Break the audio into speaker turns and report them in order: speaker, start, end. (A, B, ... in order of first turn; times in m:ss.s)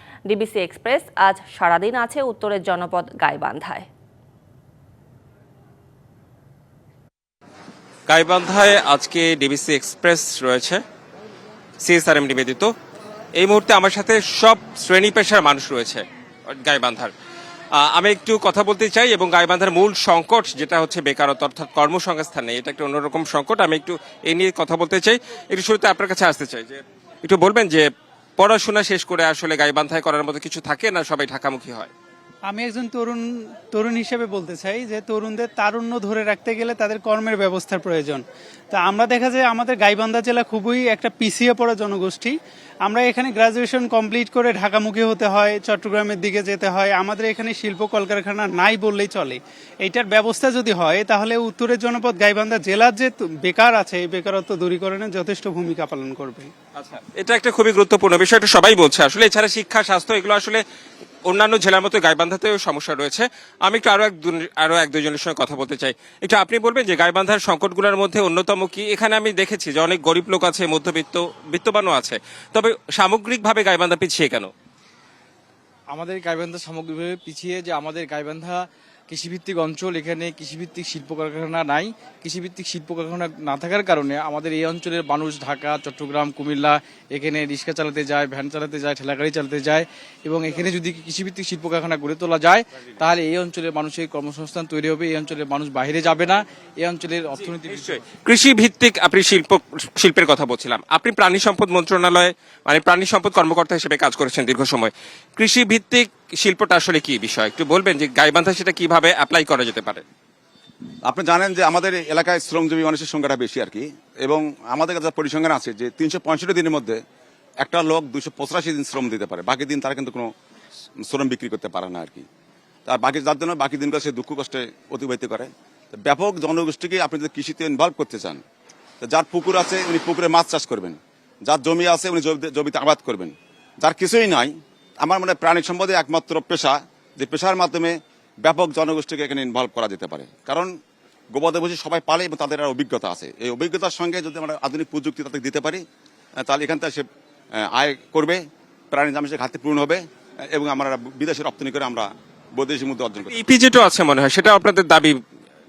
0:00.3-0:03.9 A
0:08.1-0:10.8 B
0:11.8-0:12.7 B
0:13.4-0:17.1 B
0:17.8-0:31.9 B
0:32.5-0:56.5 C
0:56.8-1:00.6 B
1:01.3-1:14.5 B
1:15.9-1:38.0 D
1:37.7-1:50.0 B
1:51.1-1:57.0 E
1:57.6-2:00.3 E
2:01.0-2:02.3 E
2:02.9-2:08.4 E
2:09.0-2:20.8 E
2:21.3-2:25.8 E
2:26.4-2:33.4 E
2:33.3-2:35.2 B